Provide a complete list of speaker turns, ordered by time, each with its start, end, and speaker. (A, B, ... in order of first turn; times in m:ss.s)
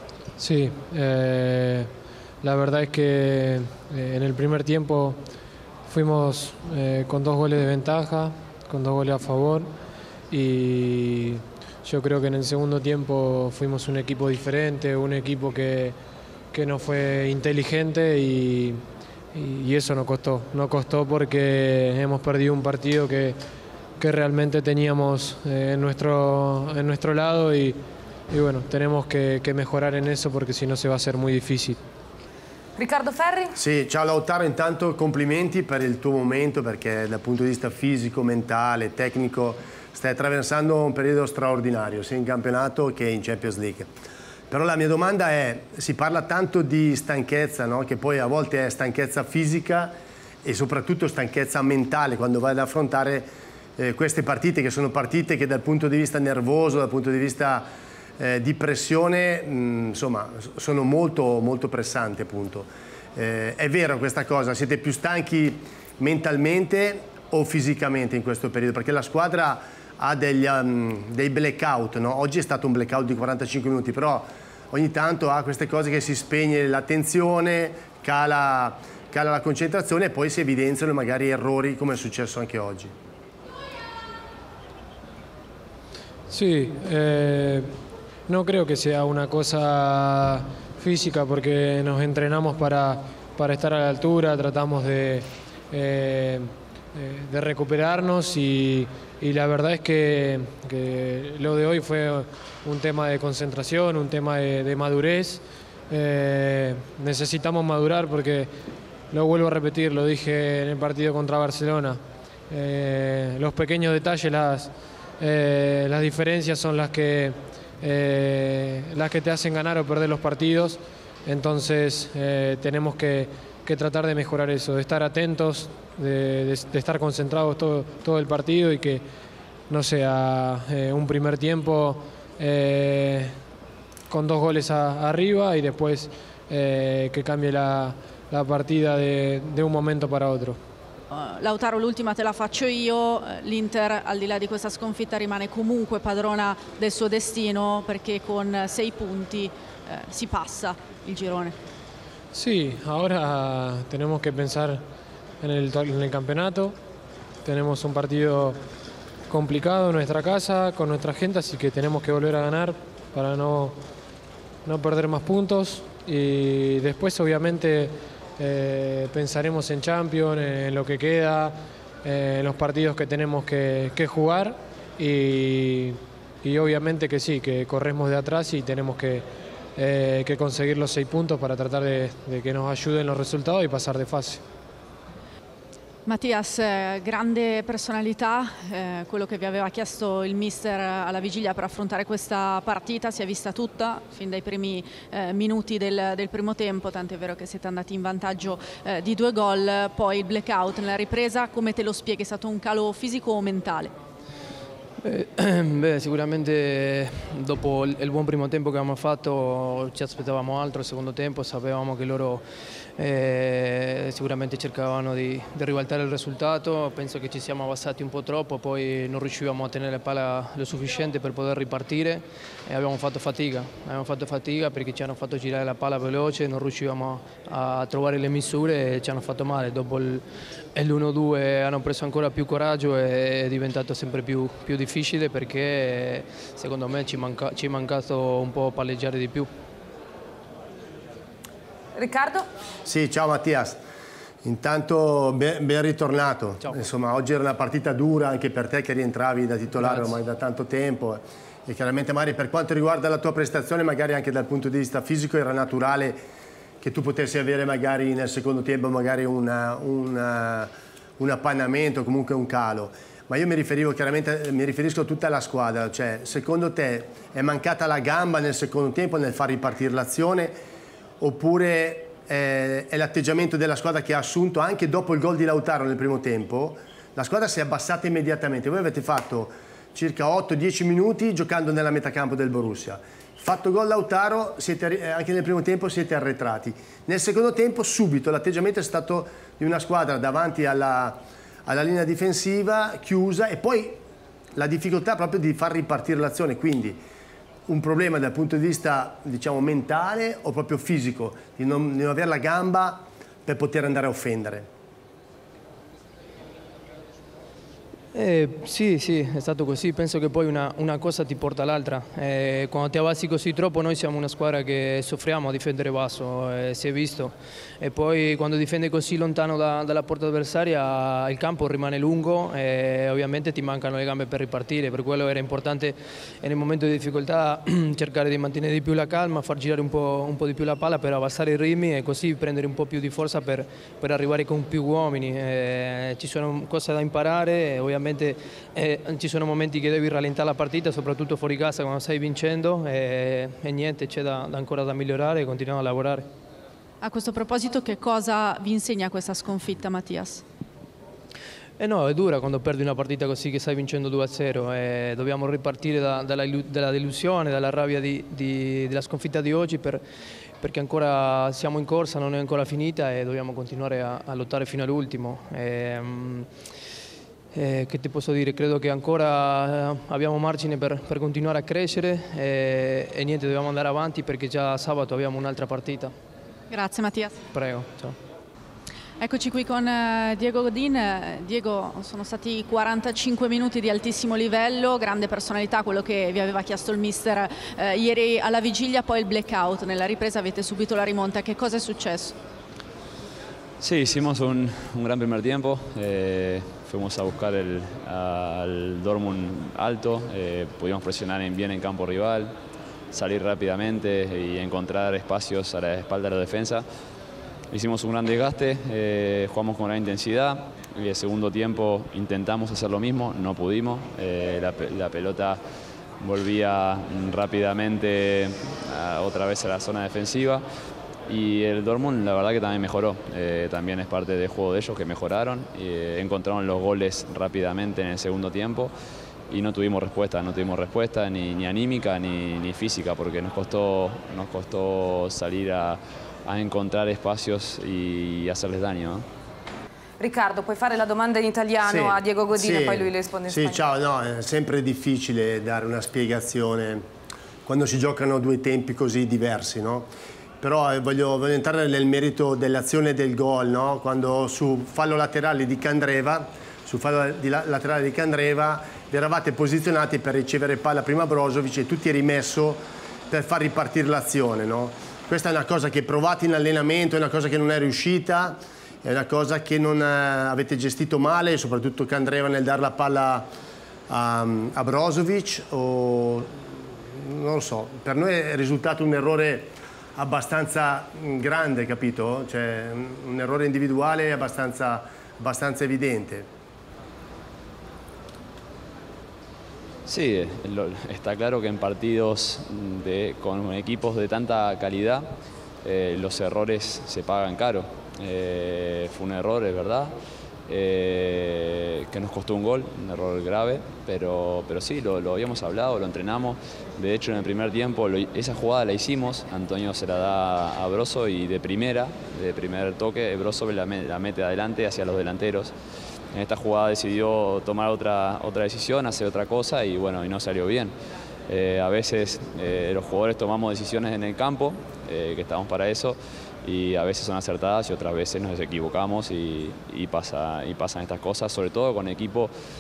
0:00.4-0:01.9 A
0:02.4-0:05.2 A
0:05.9-0:09.7 A
0:10.3-0:16.0 A
0:16.5-0:18.8 A
0:19.3-0:23.4 A
0:24.0-0:27.8 A
0:28.3-0:31.8 A
0:32.8-0:33.5 B
0:33.6-0:43.9 C
0:44.5-1:22.9 C
1:26.3-1:27.7 A
1:28.3-1:48.5 A
1:49.1-2:09.0 A
2:09.7-2:13.3 A
2:14.1-2:20.6 A
2:21.1-2:31.6 D
2:32.3-2:34.8 A
2:35.4-2:36.8 A
2:37.4-2:38.6 A
2:39.3-2:43.8 A
2:44.6-2:59.2 A
2:59.8-3:04.4 A
3:06.1-3:23.9 D
3:25.0-3:32.4 E
3:33.0-3:59.5 E
4:02.0-4:02.4 B
4:02.8-4:03.8 C
4:04.4-4:16.2 C
4:09.8-4:10.2 E
4:16.8-4:30.6 C
4:31.2-4:54.0 C
4:54.6-4:57.0 C
4:57.7-5:04.7 C
5:08.1-5:46.3 E
5:47.0-5:50.4 D
5:51.8-6:00.0 E
6:00.6-6:06.5 E
6:07.5-6:16.1 E
6:16.7-6:17.4 D
6:17.5-6:18.2 E
6:19.2-6:32.4 D
6:33.8-6:42.5 F
6:43.1-6:46.8 F
6:47.7-6:55.6 F
6:56.2-7:00.6 F
7:01.3-7:08.9 F
7:09.5-7:19.2 F
7:20.2-7:23.8 B
7:21.8-7:27.0 C
7:27.7-7:30.1 C
7:30.6-7:53.5 C
7:54.1-8:06.5 C
8:10.1-8:15.3 F
8:15.8-8:20.1 F
8:20.7-8:35.7 F
8:36.3-8:40.9 F
8:41.5-8:52.5 F